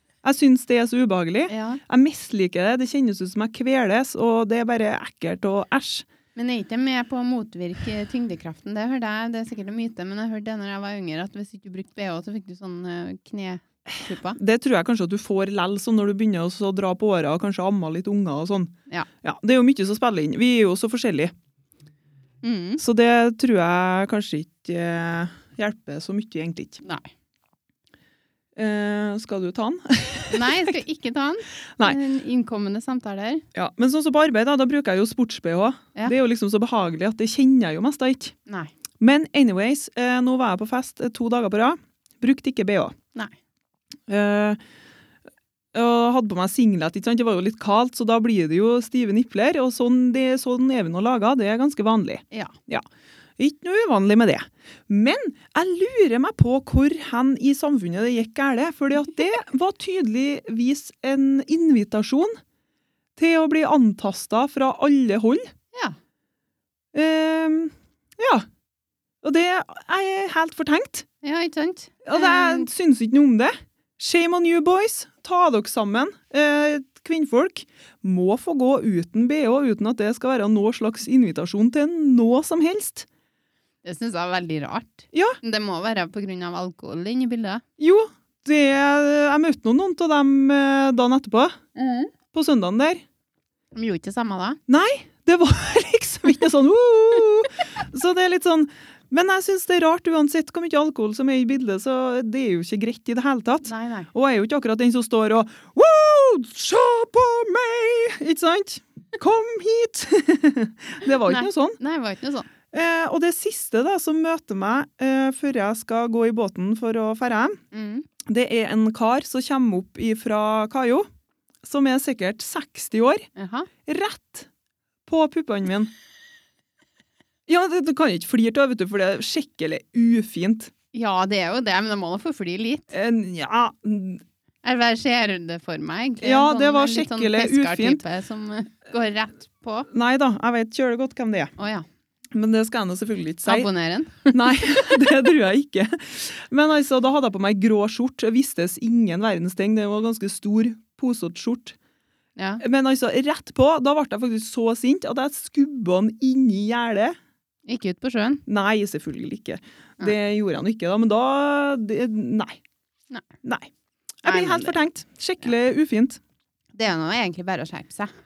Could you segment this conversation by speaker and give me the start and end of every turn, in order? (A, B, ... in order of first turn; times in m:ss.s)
0:00.2-0:06.1 A
0:01.5-0:01.8 B
0:06.4-0:14.4 B
0:14.4-0:21.3 A
0:22.4-0:22.8 B
0:22.8-0:26.8 A
0:26.8-0:27.1 B
0:28.6-0:30.8 A
0:30.3-0:33.4 B
0:33.5-0:38.4 A
0:39.0-0:43.0 A
0:44.1-0:44.6 A
0:45.7-0:52.9 A
0:53.4-1:02.4 A
1:03.2-1:05.5 A
1:06.9-1:08.5 A
1:09.2-1:11.1 A
1:11.2-1:12.7 B
1:12.0-1:23.1 A
1:23.8-1:27.6 B
1:25.1-1:25.4 A
1:27.8-1:31.6 A
1:31.8-1:32.1 B
1:32.3-1:33.0 A
1:33.8-1:34.6 B
1:34.7-1:51.8 A
1:43.6-1:44.1 B
1:51.2-1:52.5 B
1:52.7-1:57.6 A
1:57.7-1:58.1 B
1:58.2-2:01.1 A
2:01.6-2:03.3 A
2:03.4-2:03.7 B
2:03.9-2:04.5 A
2:05.1-2:05.9 A
2:07.5-2:10.7 A
2:10.9-2:12.9 B
2:12.9-2:14.2 A
2:14.6-2:19.9 B
2:16.2-2:18.0 A
2:19.9-2:21.5 A
2:21.6-2:21.9 B
2:22.3-2:23.7 A
2:23.5-2:24.6 B
2:24.3-2:31.8 A
2:32.4-2:32.6 B
2:32.6-2:37.2 A
2:37.7-2:38.4 B
2:38.5-2:42.6 A
2:43.4-2:43.7 A
2:44.2-2:44.8 B
2:44.2-2:46.2 A
2:46.7-2:48.1 B